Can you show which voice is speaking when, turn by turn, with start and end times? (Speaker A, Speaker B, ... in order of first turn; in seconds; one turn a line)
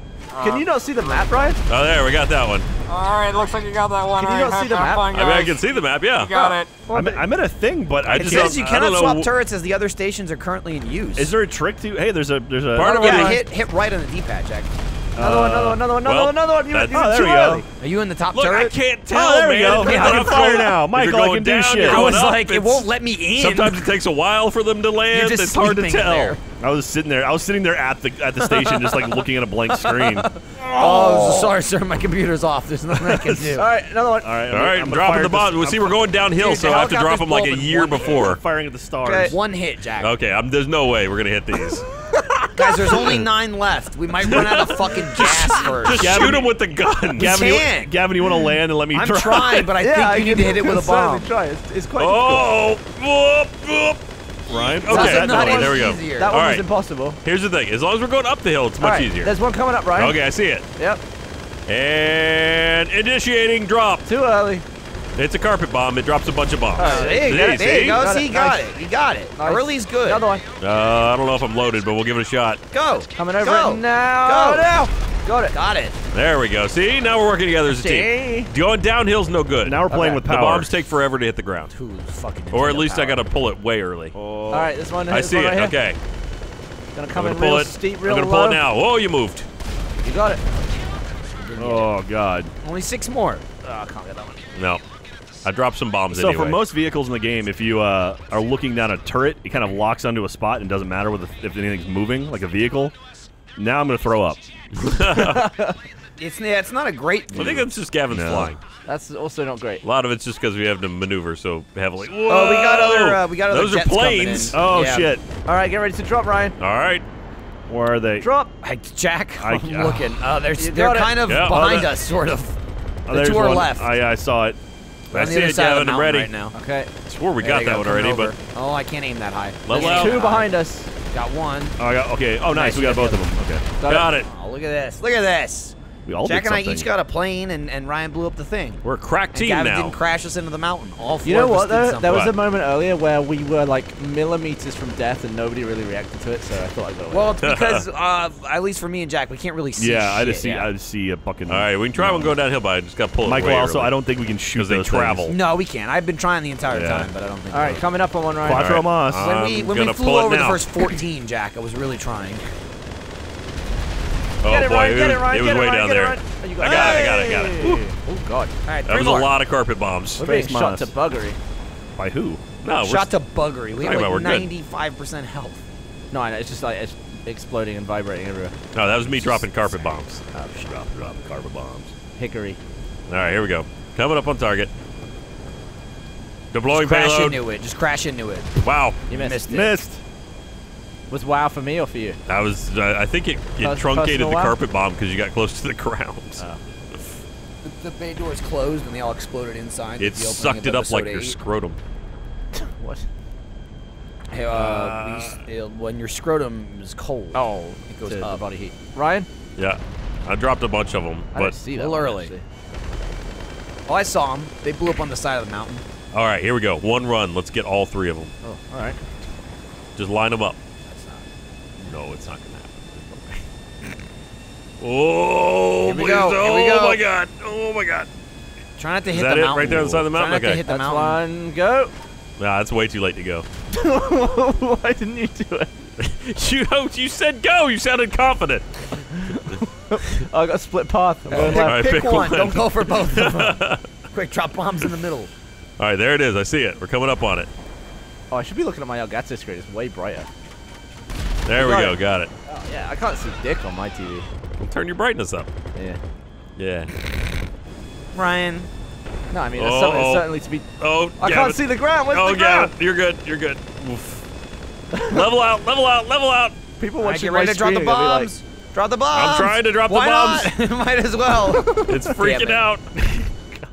Speaker A: 0.3-1.6
Speaker B: 0.3-1.6
Speaker C: 1.7-2.7
Speaker A: 2.9-6.8
Speaker B: 4.2-5.1
Speaker C: 5.1-6.3
Speaker D: 6.3-7.3
Speaker E: 6.9-8.6
Speaker C: 8.0-9.3
Speaker D: 8.1-11.3
Speaker E: 11.2-13.4
Speaker C: 12.7-13.4
Speaker D: 12.8-14.7
Speaker E: 15.2-15.8
Speaker B: 15.2-17.6
Speaker C: 16.0-17.1
Speaker E: 16.9-17.6
Speaker D: 17.8-18.8
Speaker C: 18.3-26.4
Speaker E: 19.1-22.2
Speaker D: 19.8-20.6
Speaker D: 21.8-23.9
Speaker D: 25.1-26.4
Speaker E: 26.6-30.3
Speaker D: 28.4-33.6
Speaker B: 30.6-31.6
Speaker E: 33.0-33.6
Speaker B: 33.5-34.5
Speaker E: 34.2-36.0
Speaker C: 34.5-38.4
Speaker D: 36.4-38.2
Speaker B: 36.5-36.9
Speaker E: 37.8-39.4
Speaker D: 39.0-40.1
Speaker C: 40.0-41.8
Speaker D: 42.5-46.3
Speaker C: 44.2-47.4
Speaker E: 46.0-49.7
Speaker D: 47.2-48.0
Speaker D: 48.9-51.3
Speaker B: 49.8-52.5
Speaker C: 52.0-54.0
Speaker E: 54.5-55.6
Speaker C: 54.7-56.6
Speaker D: 54.9-56.3
Speaker B: 54.9-57.2
Speaker C: 57.2-59.4
Speaker B: 58.8-60.2
Speaker C: 59.9-60.6
Speaker B: 60.8-61.0
Speaker C: 61.7-64.0
Speaker B: 64.0-64.6
Speaker C: 65.2-68.0
Speaker B: 66.8-68.8
Speaker D: 66.8-70.2
Speaker B: 69.3-70.4
Speaker C: 70.6-72.6
Speaker D: 72.7-74.9
Speaker B: 73.2-75.5
Speaker D: 75.5-76.0
Speaker C: 76.1-81.7
Speaker B: 77.7-78.5
Speaker E: 79.6-80.7
Speaker B: 79.9-80.2
Speaker D: 81.7-83.2
Speaker C: 82.5-84.1
Speaker E: 84.1-84.8
Speaker B: 84.5-85.8
Speaker C: 85.1-86.0
Speaker B: 86.9-88.6
Speaker C: 87.1-89.5
Speaker B: 90.0-90.4
Speaker D: 91.4-91.9
Speaker E: 91.5-92.5
Speaker D: 92.6-94.4
Speaker C: 94.5-94.8
Speaker C: 95.4-96.6
Speaker E: 96.1-102.9
Speaker E: 103.5-104.4
Speaker C: 104.7-105.5
Speaker B: 105.1-105.8
Speaker D: 106.2-107.7
Speaker C: 107.3-108.6
Speaker E: 107.3-108.6
Speaker B: 108.8-109.8
Speaker C: 109.8-114.6
Speaker D: 112.2-115.1
Speaker E: 114.5-115.2
Speaker B: 114.8-116.5
Speaker C: 116.6-117.0
Speaker E: 117.7-118.3
Speaker B: 118.2-118.5
Speaker D: 118.6-124.0
Speaker E: 119.4-120.1
Speaker B: 120.5-121.3
Speaker C: 121.3-121.7
Speaker E: 121.3-122.0
Speaker E: 123.1-124.6
Speaker C: 125.1-126.3
Speaker D: 125.1-126.5
Speaker B: 126.5-126.9
Speaker C: 127.1-128.3
Speaker D: 127.4-130.5
Speaker C: 129.7-130.2
Speaker B: 129.8-130.9
Speaker D: 131.1-131.8
Speaker E: 131.8-133.6
Speaker D: 132.5-133.2
Speaker B: 133.8-134.1
Speaker C: 133.8-134.3
Speaker D: 134.2-138.8
Speaker E: 136.1-136.9
Speaker C: 138.8-140.0
Speaker D: 139.3-142.3
Speaker B: 141.2-147.3
Speaker C: 142.1-142.3
Speaker D: 147.1-150.7
Speaker C: 147.4-147.8
Speaker E: 149.8-152.4
Speaker C: 151.5-153.9
Speaker E: 153.2-155.3
Speaker C: 154.5-155.4
Speaker D: 155.3-157.8
Speaker E: 156.7-157.1
Speaker B: 157.5-158.7
Speaker E: 158.4-159.3
Speaker C: 158.5-160.7
Speaker D: 159.1-162.4
Speaker C: 164.4-167.9
Speaker B: 164.4-168.5
Speaker E: 166.7-167.8
Speaker D: 168.7-169.3
Speaker C: 168.8-170.2
Speaker E: 170.2-170.9
Speaker B: 170.2-171.4
Speaker E: 172.0-172.4
Speaker C: 172.6-173.1
Speaker D: 172.8-175.6
Speaker C: 173.7-174.5
Speaker B: 176.1-178.5
Speaker C: 178.7-180.2
Speaker B: 180.3-180.9
Speaker E: 180.6-181.9
Speaker B: 182.1-182.6
Speaker C: 183.1-184.7
Speaker C: 186.5-187.4
Speaker D: 186.7-188.5
Speaker C: 188.6-189.0
Speaker B: 189.1-189.4
Speaker D: 189.1-189.8
Speaker E: 189.5-190.0
Speaker B: 191.1-192.2
Speaker C: 192.3-197.0
Speaker B: 193.6-194.6
Speaker D: 197.6-201.4
Speaker C: 200.0-201.8
Speaker B: 202.5-203.0
Speaker D: 204.3-208.4
Speaker C: 204.5-205.4
Speaker B: 207.3-209.3
Speaker C: 209.6-211.6
Speaker B: 211.3-212.4
Speaker D: 211.7-212.3
Speaker D: 213.9-215.8
Speaker C: 216.1-218.3
Speaker B: 218.4-219.0
Speaker C: 219.9-220.6
Speaker D: 220.8-221.3
Speaker C: 221.8-223.4
Speaker C: 224.8-228.1
Speaker D: 225.8-227.0
Speaker D: 228.8-231.2
Speaker C: 229.1-230.6
Speaker B: 230.7-231.9
Speaker C: 232.4-233.4
Speaker B: 233.7-235.8
Speaker C: 236.0-239.3
Speaker B: 239.3-242.0
Speaker D: 241.3-245.3
Speaker C: 241.3-243.8
Speaker C: 245.8-247.5
Speaker B: 248.3-250.3
Speaker C: 251.4-252.3
Speaker B: 251.5-254.3
Speaker C: 254.6-255.5
Speaker C: 256.6-256.9
Speaker D: 258.1-258.7
Speaker B: 259.3-260.7
Speaker C: 259.6-264.2
Speaker B: 261.2-262.7
Speaker C: 264.9-266.6
Speaker B: 266.8-268.3
Speaker D: 267.0-272.7
Speaker C: 269.1-270.6
Speaker C: 271.6-273.2